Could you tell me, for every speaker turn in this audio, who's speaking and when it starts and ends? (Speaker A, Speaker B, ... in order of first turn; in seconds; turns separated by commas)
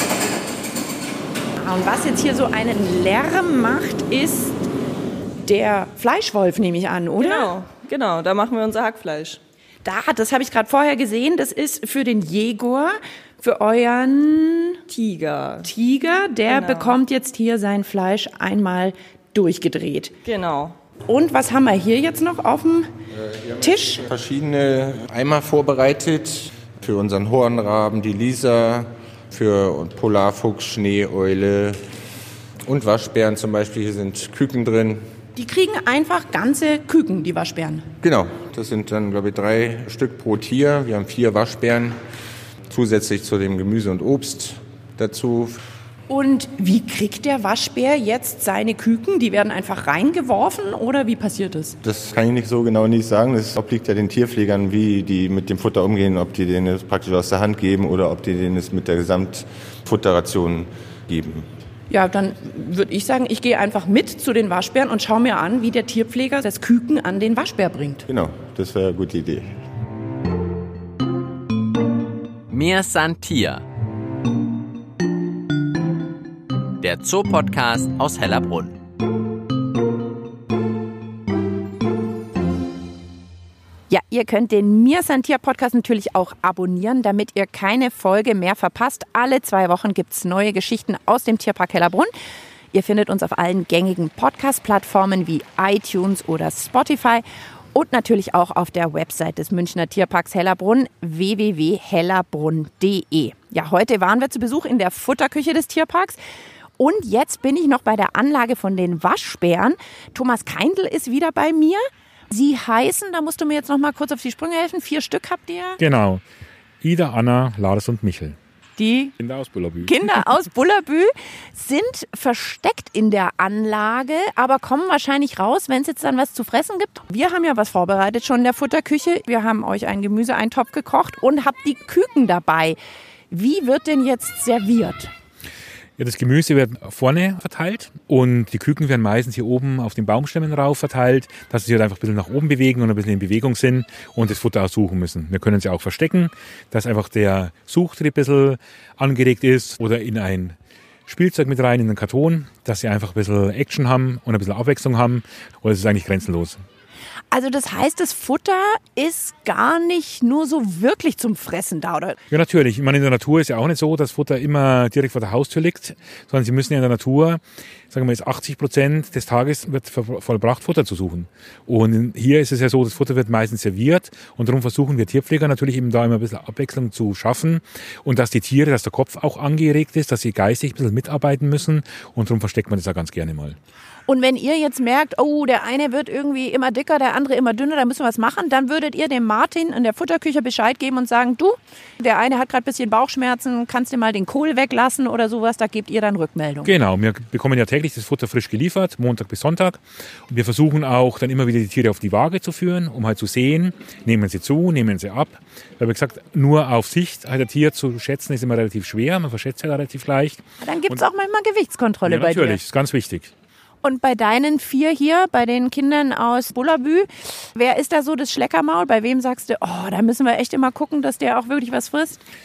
Speaker A: 1.6-4.6, Speaker A: 5.4-7.5, Speaker B: 7.2-9.4, Speaker A: 9.8-14.8, Speaker B: 14.9-15.7, Speaker A: 15.6-20.1, Speaker B: 16.5-17.0, Speaker B: 20.2-20.8, Speaker A: 21.1-22.9, Speaker C: 23.1-31.9, Speaker A: 23.6-24.0, Speaker C: 32.6-35.0, Speaker A: 35.4-37.9, Speaker C: 38.0-42.0, Speaker C: 42.7-45.6, Speaker A: 46.1-51.8, Speaker C: 51.8-61.5, Speaker A: 61.9-68.1, Speaker C: 68.1-69.6, Speaker D: 72.5-73.6, Speaker D: 76.8-78.8, Speaker A: 83.9-92.1, Speaker A: 92.7-106.2, Speaker A: 106.8-115.8, Speaker E: 115.8-116.2, Speaker E: 116.8-118.4, Speaker A: 118.8-119.1, Speaker E: 119.2-120.2, Speaker A: 119.8-132.8, Speaker A: 133.3-135.1, Speaker E: 136.0-150.6, Speaker E: 151.1-156.6, Speaker A: 157.3-162.2, Speaker E: 162.3-167.4, Speaker E: 167.9-183.6, Speaker A: 184.1-196.7, Speaker E: 196.6-211.0, Speaker A: 210.6-212.6, Speaker E: 212.1-213.3, Speaker A: 213.8-222.2